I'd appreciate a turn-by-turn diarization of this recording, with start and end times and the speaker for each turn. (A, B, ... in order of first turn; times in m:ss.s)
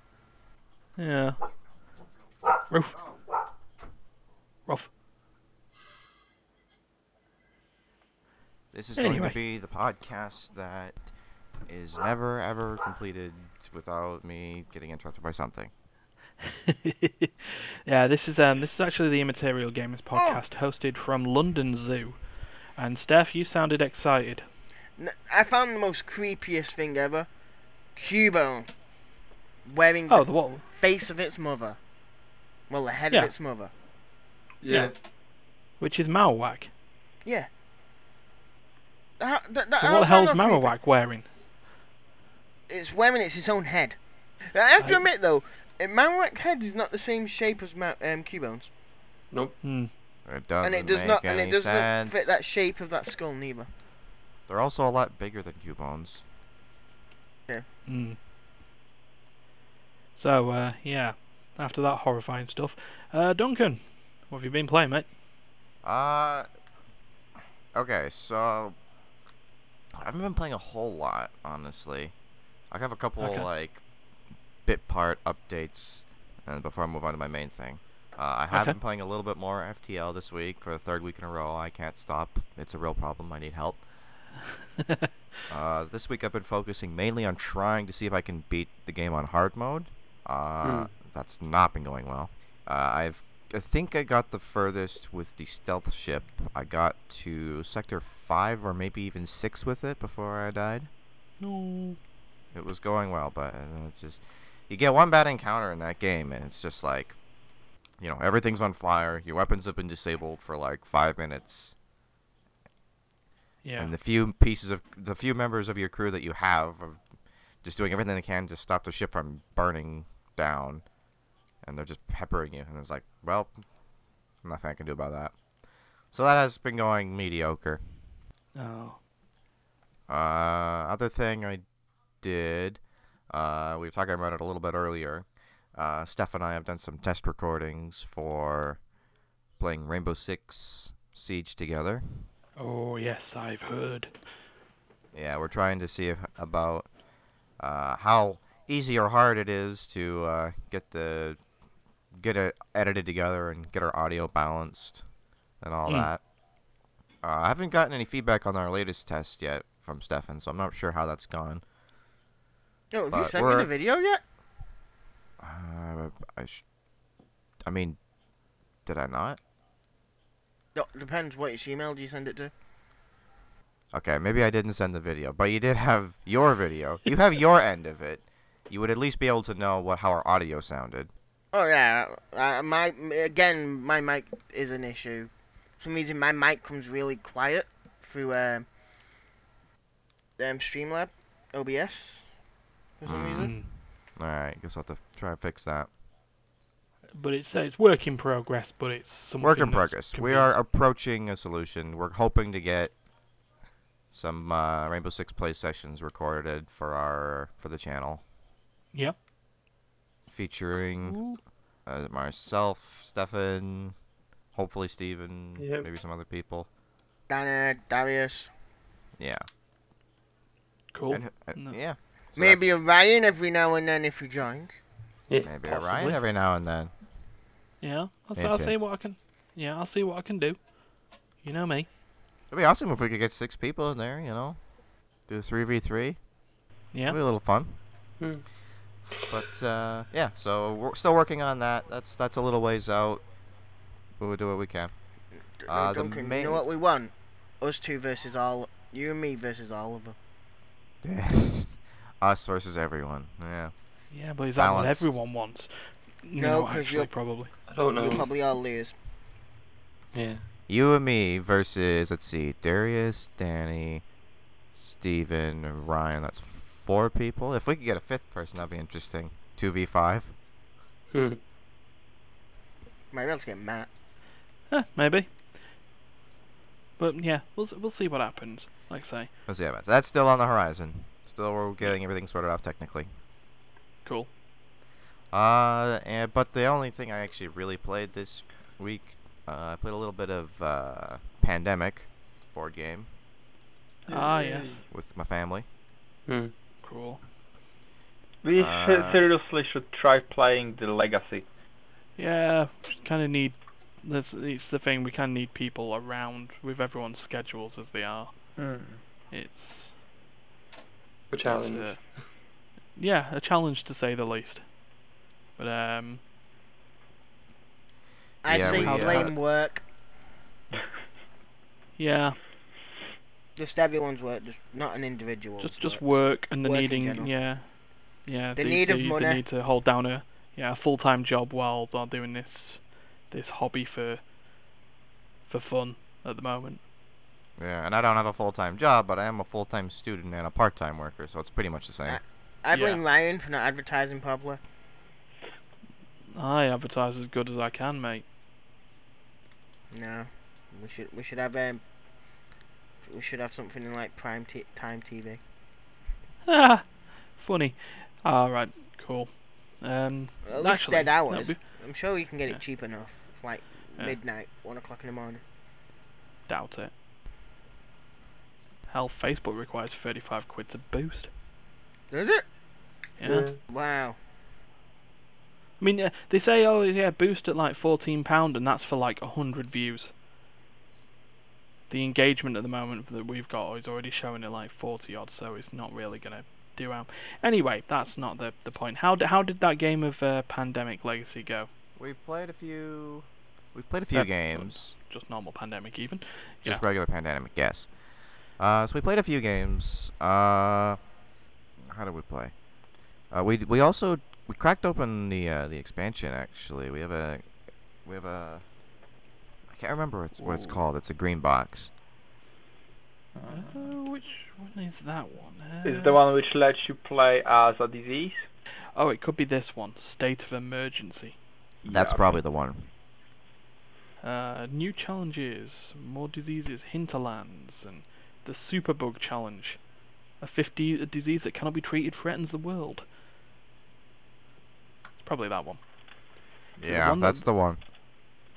0:01.0-0:01.4 A
0:02.7-0:03.0 A
0:08.7-0:11.1 B
0:09.0-0:09.4 A
0:11.7-0:15.7 B
0:16.4-0:22.2 A
0:20.1-0:20.4 C
0:22.8-0:24.4 A
0:25.0-0:27.3 C
0:28.0-0:28.7 C
0:29.6-0:31.8 C
0:30.1-0:30.6 A
0:32.7-0:33.7 C
0:34.6-0:34.9 D
0:35.8-0:36.7 A
0:39.2-0:40.7 C
0:39.7-0:41.3 A
0:42.7-0:44.0 C
0:44.5-0:48.7 C
0:44.8-0:45.0 A
0:49.3-0:49.6 D
0:49.6-0:49.9 A
0:50.2-0:52.3 B
0:50.6-0:53.7 C
0:54.5-0:56.2 B
0:57.9-0:58.2 A
1:00.2-1:05.1 A
1:05.8-1:06.5 B
1:07.7-1:08.8 B
1:10.0-1:12.1 B
1:12.7-1:13.8 B
1:13.2-1:13.5 A
1:14.6-1:23.8 B
1:18.5-1:18.8 A
1:25.5-1:40.9 B
1:30.6-1:30.9 D
1:41.4-1:42.0 A
1:42.5-1:47.2 B
1:48.0-1:51.7 B
1:53.6-1:53.9 A
1:53.8-1:57.0 B
1:57.6-2:00.8 B
2:01.6-2:03.6 B
2:04.4-2:05.3 B
2:06.1-2:07.8 B
2:08.5-2:09.0 A
2:10.1-2:11.6 B
2:12.2-2:18.8 B
2:19.6-2:22.3 B
2:22.6-2:24.1 A
2:25.1-2:26.9 B
2:27.6-2:31.4 B
2:32.1-2:35.0 B
2:35.6-2:36.2 B
2:35.8-2:36.1 A
2:37.2-2:41.6 B
2:42.9-2:44.2 C
2:43.1-2:43.7 B
2:45.4-2:46.6 B
2:47.6-2:48.0 B
2:48.8-2:49.4 B
2:50.7-2:52.5 C
2:53.9-3:01.1 B
3:01.5-3:08.7 C
3:10.4-3:12.3 C
3:13.0-3:13.5 C
3:13.0-3:15.9 B
3:13.4-3:13.7 A
3:17.2-3:20.5 A
3:19.4-3:22.9 B
3:24.1-3:28.2 B
3:30.3-3:31.3 B
3:31.0-3:31.4 A
3:31.8-3:33.9 B
3:34.5-3:36.7 B
3:35.6-3:35.9 D
3:37.3-3:38.5 C
3:39.2-3:39.4 B
3:40.9-3:41.8 A
3:41.1-3:42.7 B
3:42.4-3:44.8 C
3:45.4-3:46.9 B
3:45.6-3:46.2 A
3:47.8-3:50.6 A
3:48.3-3:48.9 B
3:51.4-3:51.9 A
3:52.5-3:54.6 B
3:55.3-3:56.2 B
3:56.9-3:57.2 A
3:57.0-3:57.8 B
3:58.2-3:58.4 D
3:59.1-3:59.4 D
3:59.3-4:03.3 B
4:04.2-4:04.9 B
4:05.6-4:10.2 C
4:05.7-4:06.6 B
4:11.0-4:13.7 B
4:14.1-4:17.5 A
4:14.6-4:15.2 B
4:16.4-4:17.2 C
4:17.7-4:18.3 D
4:17.9-4:18.9 C
4:20.1-4:20.4 D
4:20.7-4:24.0 B
4:24.7-4:30.3 B
4:31.1-4:31.4 D
4:33.1-4:33.9 C
4:34.7-4:35.3 A
4:37.0-4:39.3 A
4:39.5-4:43.1 B
4:45.3-4:53.1 B
4:54.1-4:54.8 A
4:54.1-4:54.8 E
4:54.9-4:55.6 B
4:56.3-4:56.5 D
4:56.8-4:57.2 A
4:58.4-5:01.4 E
4:58.6-4:59.2 B
5:02.2-5:08.3 A
5:08.6-5:09.0 E
5:09.3-5:09.9 A
5:11.3-5:12.2 D
5:11.4-5:12.0 A
5:13.0-5:14.6 A
5:15.6-5:16.2 A
5:18.4-5:19.8 C
5:18.5-5:19.3 B
5:18.5-5:19.3 A
5:22.0-5:22.4 A
5:23.6-5:27.3 C
5:25.6-5:34.2 A
5:28.6-5:29.4 C
5:35.5-5:36.8 A
5:37.6-5:42.2 B
5:42.0-5:44.6 C
5:42.7-5:43.0 A
5:46.3-5:48.2 A
5:49.9-5:51.8 C
5:53.0-5:55.4 C
5:56.4-6:01.6 A
6:00.4-6:05.4 C
6:06.5-6:06.9 A
6:08.9-6:11.3 A
6:12.1-6:12.4 C
6:13.2-6:13.5 A
6:13.2-6:13.6 D
6:13.7-6:14.2 C
6:15.8-6:20.1 A
6:21.9-6:31.7 A
6:32.0-6:34.9 B
6:34.1-6:36.8 A
6:36.6-6:37.9 B
6:38.6-6:41.0 B
6:41.9-6:42.5 B
6:43.3-6:47.4 B
6:48.0-6:48.6 B
6:49.7-6:51.9 B
6:50.4-6:50.8 A
6:53.3-6:53.9 E
6:53.5-6:56.2 A
6:55.8-6:58.4 E
6:59.0-7:01.4 A
7:01.8-7:02.4 E
7:01.9-7:02.9 B
7:04.2-7:09.8 A
7:10.4-7:13.0 A
7:15.2-7:15.8 A
7:16.8-7:17.8 B
7:16.8-7:17.5 A